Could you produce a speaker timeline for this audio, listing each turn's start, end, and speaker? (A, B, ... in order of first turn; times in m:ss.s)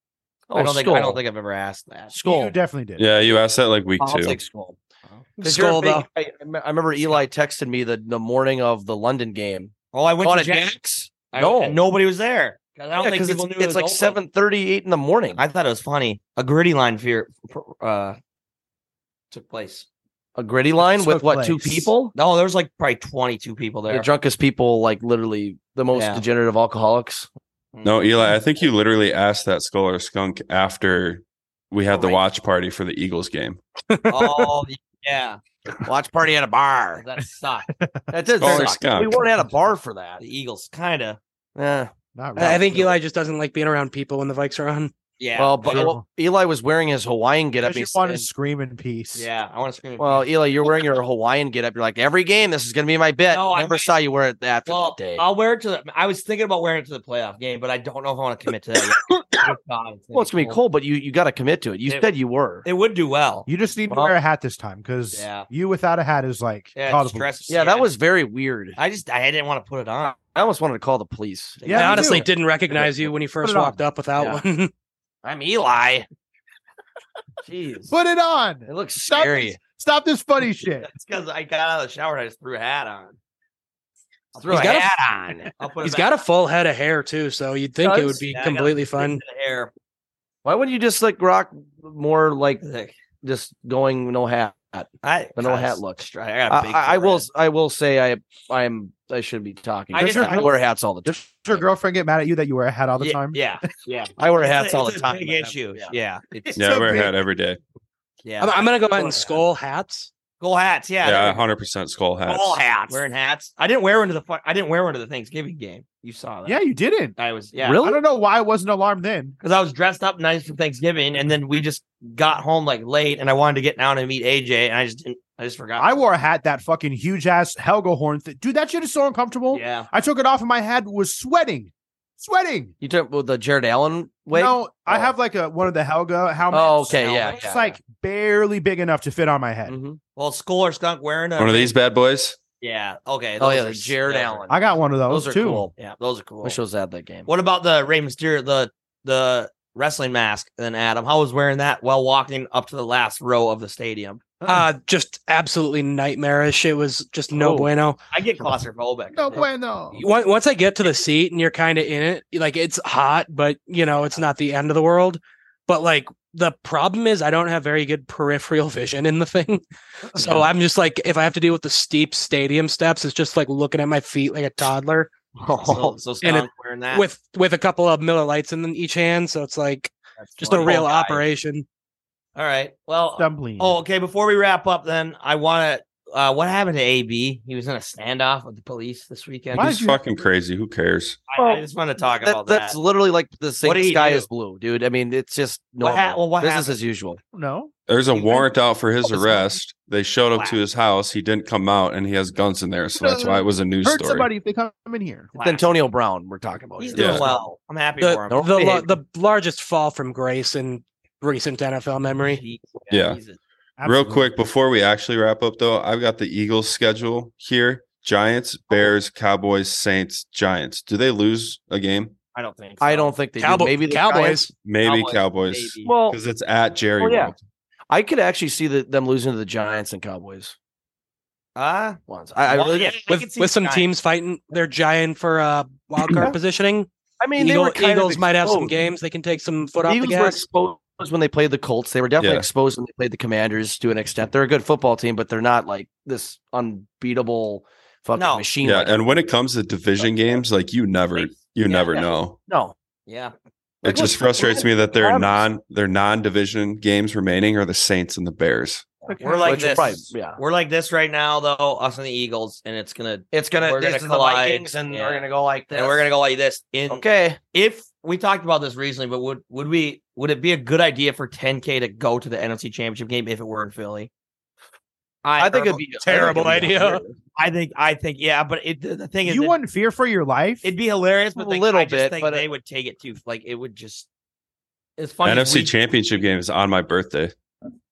0:00.5-0:01.2 A
0:00.5-0:02.1 B
0:02.1-0:02.6 A
0:02.2-0:03.1 C
0:03.0-0:04.4 D
0:04.0-0:04.8 A
0:05.4-0:06.0 E
0:05.4-0:09.7 A
0:09.9-0:10.8 B
0:10.2-0:11.8 A
0:11.3-0:14.2 B
0:13.0-0:15.4 A
0:15.3-0:18.2 B
0:19.3-0:19.8 B
0:20.4-0:22.1 A
0:20.8-0:21.9 C
0:22.1-0:24.1 B
0:23.9-0:27.3 A
0:25.9-0:26.2 B
0:27.7-0:28.1 B
0:27.8-0:33.6 D
0:31.9-0:32.2 B
0:33.9-0:34.6 E
0:34.1-0:35.4 B
0:35.8-0:37.0 A
0:36.9-0:37.7 B
0:37.7-0:38.6 C
0:38.1-0:40.2 A
0:38.4-0:39.3 D
0:40.2-0:41.2 B
0:41.6-0:42.9 A
0:42.2-0:42.9 C
0:42.4-0:44.9 E
0:45.2-0:46.0 B
0:45.4-0:48.2 A
0:45.7-0:46.0 C
0:47.6-0:49.3 C
0:49.1-0:50.7 B
0:50.0-0:55.2 A
0:53.3-0:53.9 B
0:54.6-1:00.6 B
1:00.1-1:02.6 A
1:02.6-1:03.5 B
1:03.4-1:07.3 C
1:05.1-1:05.5 B
1:06.7-1:07.9 B
1:07.5-1:08.8 A
1:08.8-1:10.2 B
1:10.3-1:12.2 A
1:11.6-1:11.9 B
1:11.6-1:12.3 C
1:11.7-1:14.7 E
1:13.4-1:13.8 C
1:15.2-1:16.0 B
1:15.3-1:16.0 A
1:17.4-1:17.9 A
1:17.9-1:20.9 C
1:18.7-1:19.6 A
1:20.8-1:23.2 B
1:24.3-1:24.9 B
1:24.4-1:25.5 A
1:24.5-1:24.9 E
1:25.6-1:26.1 B
1:25.8-1:29.2 E
1:27.8-1:28.2 A
1:28.3-1:29.7 B
1:30.4-1:32.6 A
1:32.6-1:33.0 B
1:33.2-1:41.6 A
1:35.0-1:37.3 B
1:39.9-1:40.6 B
1:39.9-1:40.5 C
1:41.0-1:43.5 C
1:43.0-1:46.6 B
1:44.2-1:45.9 A
1:46.5-1:47.1 C
1:46.5-1:47.6 D
1:48.2-1:49.2 B
1:48.4-1:50.1 E
1:50.4-1:51.4 B
1:51.0-1:52.7 D
1:52.3-1:56.6 B
1:52.7-1:53.0 A
1:56.4-1:57.1 C
1:57.2-1:57.8 B
1:57.6-1:58.0 A
1:57.8-1:59.4 C
1:59.4-2:06.0 B
2:05.8-2:12.7 C
2:09.5-2:09.9 B
2:12.8-2:15.1 A
2:14.3-2:19.8 C
2:16.5-2:17.7 A
2:16.9-2:17.7 B
2:19.7-2:20.0 A
2:20.2-2:21.7 B
2:21.4-2:22.4 D
2:22.6-2:24.4 B
2:23.4-2:25.7 A
2:24.5-2:25.7 C
2:25.8-2:26.6 B
2:26.4-2:27.3 A
2:27.3-2:34.2 B
2:34.4-2:34.6 C
2:34.4-2:38.0 E
2:37.3-2:37.7 A
2:38.1-2:39.4 B
2:39.1-2:40.0 C
2:39.9-2:55.1 E
2:55.4-2:56.0 A
2:55.6-2:57.0 B
2:56.2-3:01.6 E
3:00.2-3:01.2 B
3:02.4-3:09.8 B
3:03.1-3:03.8 C
3:09.5-3:10.0 C
3:09.5-3:11.2 D
3:11.3-3:12.8 B
3:11.4-3:11.6 A
3:12.2-3:17.2 A
3:13.6-3:14.3 B
3:15.8-3:16.8 B
3:17.3-3:17.7 C
3:17.9-3:24.3 D
3:18.2-3:18.4 B
3:20.3-3:20.6 B
3:22.9-3:25.3 C
3:25.3-3:25.7 B
3:25.4-3:27.4 A
3:26.8-3:28.7 B
3:27.0-3:27.3 D
3:28.0-3:32.4 E
3:28.3-3:28.9 A
3:32.2-3:33.4 B
3:32.9-3:33.2 D
3:33.8-3:34.3 C
3:33.8-3:42.2 D
3:42.3-3:43.1 B
3:42.8-3:44.5 A
3:43.4-3:44.5 E
3:44.5-3:47.4 D
3:44.8-3:45.9 B
3:45.8-3:46.2 A
3:47.0-3:47.3 A
3:47.9-3:50.5 A
3:51.6-3:53.9 B
3:52.1-3:53.0 A
3:53.1-4:00.4 E
3:56.1-3:56.4 A
3:57.2-3:58.7 A
3:59.9-4:09.0 A
4:02.2-4:02.5 D
4:08.2-4:08.5 B
4:08.6-4:12.4 D
4:11.1-4:12.1 B
4:11.9-4:12.7 A
4:13.1-4:13.3 B
4:13.8-4:18.9 D
4:13.8-4:15.4 A
4:19.0-4:20.4 A
4:19.2-4:20.0 C
4:19.2-4:34.1 B
4:23.3-4:26.1 A
4:26.9-4:27.4 A
4:35.2-4:36.3 B
4:35.4-4:37.2 A
4:36.0-4:37.0 E
4:37.4-4:39.6 B
4:39.2-4:40.7 C
4:40.6-4:44.1 B
4:41.4-4:42.4 A
4:45.0-4:45.7 B
4:45.2-4:47.3 D